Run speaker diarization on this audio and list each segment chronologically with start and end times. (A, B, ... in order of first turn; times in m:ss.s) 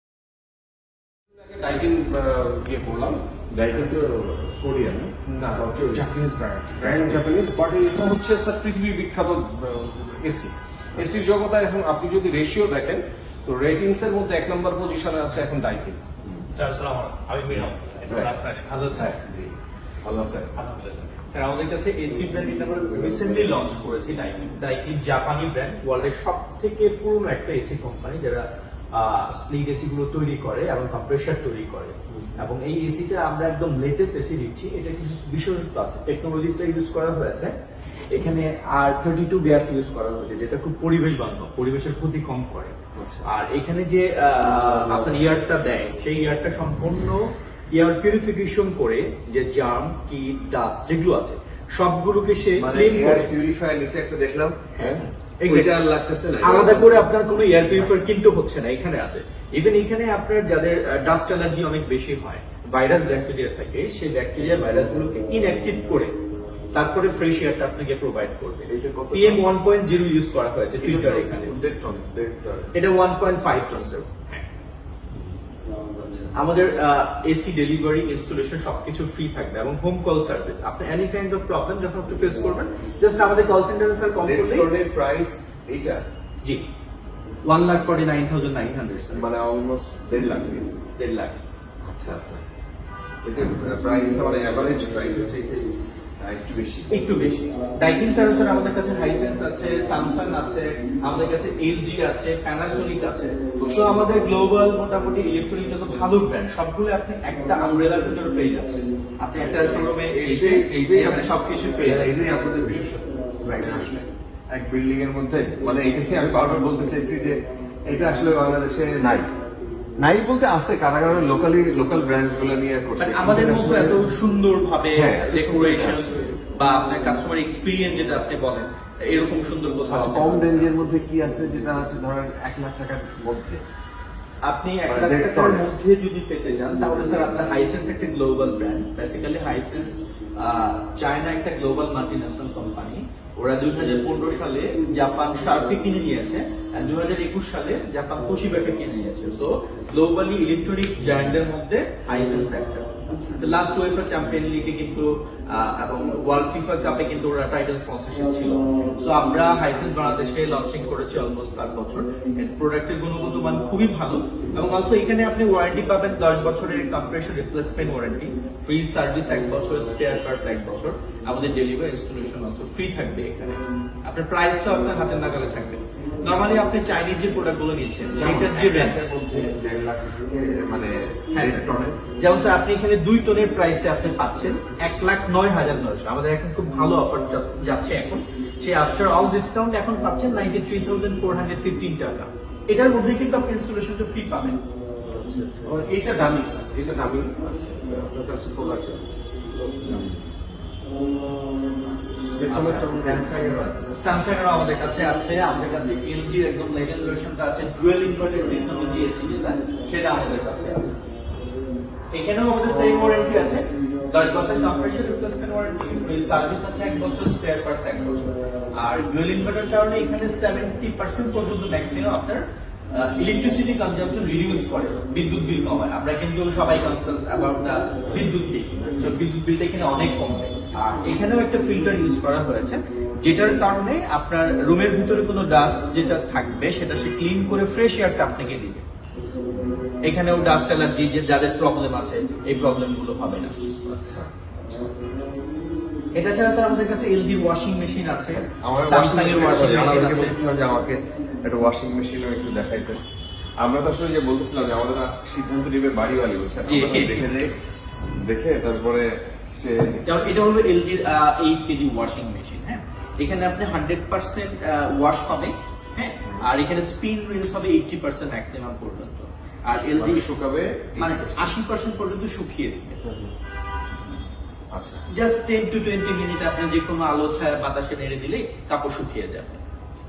0:01.3-0:03.2 A
0:03.5-0:06.1 B
0:05.2-0:16.0 A
0:06.8-0:07.2 B
0:16.5-0:19.2 C
0:18.1-0:18.4 B
0:18.9-0:20.5 B
0:20.5-0:37.6 C
0:32.1-0:32.4 B
0:38.1-0:53.3 C
0:42.9-0:43.2 B
0:44.7-0:45.1 B
0:52.6-0:57.1 B
0:54.8-0:55.7 C
0:56.4-1:06.2 C
1:06.7-1:11.6 C
1:08.7-1:09.5 B
1:10.8-1:12.7 B
1:12.7-1:14.4 C
1:15.9-1:16.3 B
1:16.3-1:24.7 C
1:24.2-1:26.0 B
1:27.4-1:29.3 C
1:29.1-1:30.7 B
1:31.0-1:31.4 C
1:31.8-1:32.4 B
1:33.2-1:37.1 B
1:36.9-1:52.4 C
1:49.3-1:59.3 B
2:00.0-2:04.2 B
2:03.0-2:10.7 C
2:04.9-2:06.4 B
2:09.9-2:13.7 B
2:14.4-2:59.0 C
2:14.8-2:15.7 B
2:33.1-2:33.4 B
2:58.1-3:02.0 B
3:01.3-3:14.6 C
3:15.0-3:15.8 B
3:15.6-3:20.0 A
3:19.8-3:20.7 B
3:22.4-3:23.2 A
3:22.5-3:24.2 B
3:24.0-3:31.0 C
3:32.1-3:58.8 C
3:48.8-3:49.2 B
3:59.5-4:00.0 B
4:00.0-4:03.5 C
4:03.8-4:04.3 B
4:06.1-4:10.4 C
4:08.3-4:13.0 B
4:13.6-4:20.4 B
4:16.6-4:17.3 C
4:20.0-4:30.3 C
4:30.0-4:31.5 B
4:31.0-4:33.0 C
4:33.0-4:33.3 B
4:34.7-4:35.0 B
4:35.1-4:39.6 C